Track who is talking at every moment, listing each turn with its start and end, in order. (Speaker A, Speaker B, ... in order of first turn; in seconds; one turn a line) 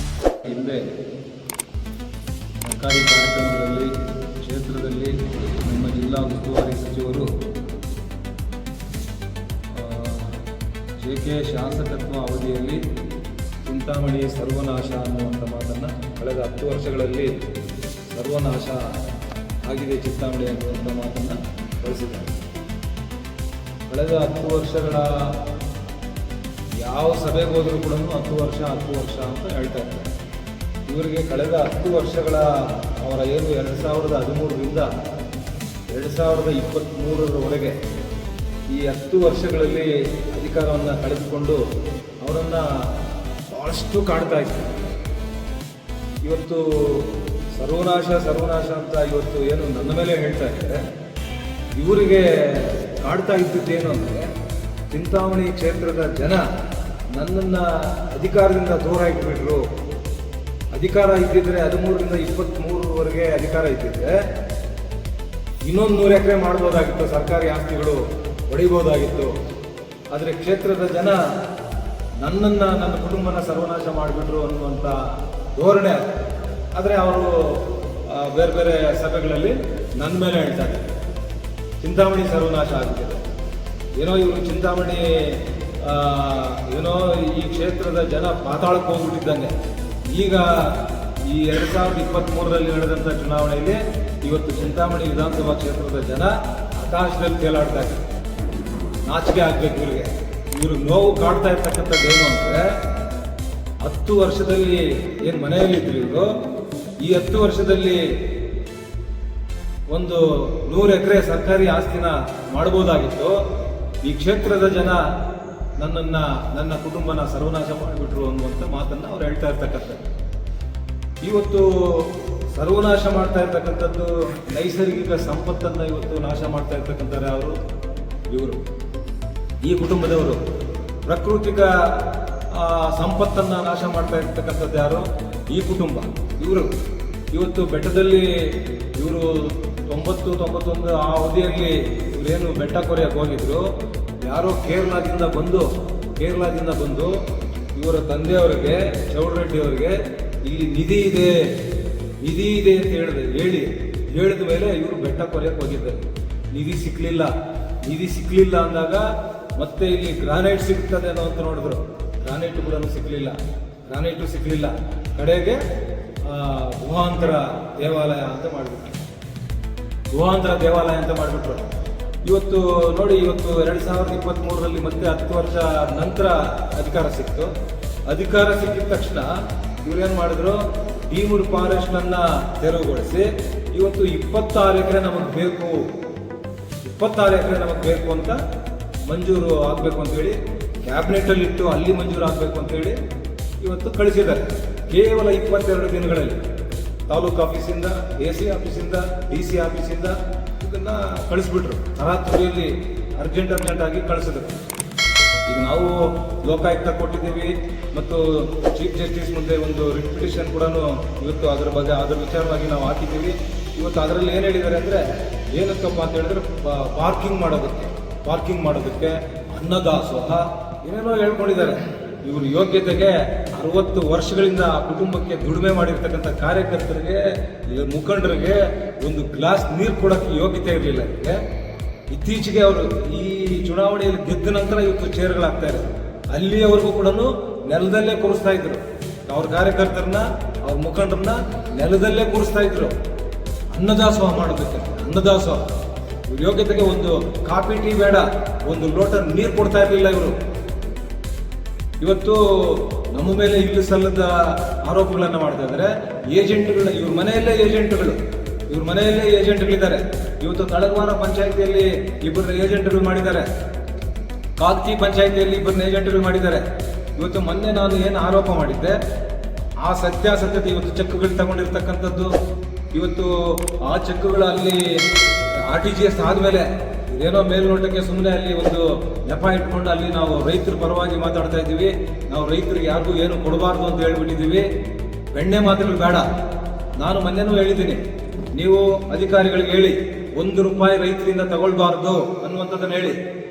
Speaker A: 0.4-0.9
Speaker A: 2.6-3.9
Speaker A: 4.4-7.3
Speaker A: 9.7-10.4
Speaker A: 11.0-12.8
Speaker A: 13.6-17.3
Speaker A: 18.1-18.9
Speaker A: 19.6-22.3
Speaker A: 23.9-25.4
Speaker A: 26.8-30.1
Speaker A: 30.9-34.9
Speaker A: 35.9-37.8
Speaker A: 38.7-41.6
Speaker A: 42.2-42.9
Speaker A: 43.5-44.8
Speaker A: 46.2-50.8
Speaker A: 51.7-54.3
Speaker A: 54.9-56.4
Speaker A: 57.1-59.6
Speaker A: 60.7-64.2
Speaker A: 65.6-69.3
Speaker A: 70.1-71.2
Speaker A: 72.2-74.9
Speaker A: 75.5-76.1
Speaker A: 76.7-80.9
Speaker A: 81.8-83.2
Speaker A: 84.0-89.5
Speaker A: 90.1-98.0
Speaker A: 99.0-102.7
Speaker A: 103.8-106.3
Speaker A: 107.0-108.0
Speaker A: 109.9-113.3
Speaker A: 114.0-115.0
Speaker A: 115.8-120.0
Speaker A: 121.2-127.6
Speaker A: 128.3-128.6
Speaker A: 129.6-130.4
Speaker A: 131.0-131.9
Speaker A: 132.5-136.7
Speaker A: 137.3-143.7
Speaker A: 144.2-147.2
Speaker A: 147.7-151.4
Speaker A: 152.2-157.3
Speaker A: 157.8-159.0
Speaker A: 159.6-163.3
Speaker A: 163.9-165.6
Speaker A: 166.2-169.0
Speaker A: 170.1-171.7
Speaker A: 172.2-177.5
Speaker A: 178.1-179.3
Speaker A: 179.8-185.8
Speaker A: 186.8-188.4
Speaker A: 189.1-192.9
Speaker A: 193.6-196.4
Speaker A: 197.1-204.6
Speaker A: 205.4-215.0
Speaker A: 215.5-231.4
Speaker A: 232.1-242.9
Speaker A: 243.7-245.6
Speaker A: 246.3-250.3
Speaker A: 252.0-258.2
Speaker A: 258.7-263.5
Speaker A: 264.6-266.6
Speaker A: 267.1-269.0
Speaker A: 269.8-272.3
Speaker A: 272.9-284.6
Speaker A: 285.3-286.3
Speaker A: 287.0-288.0
Speaker A: 288.5-293.2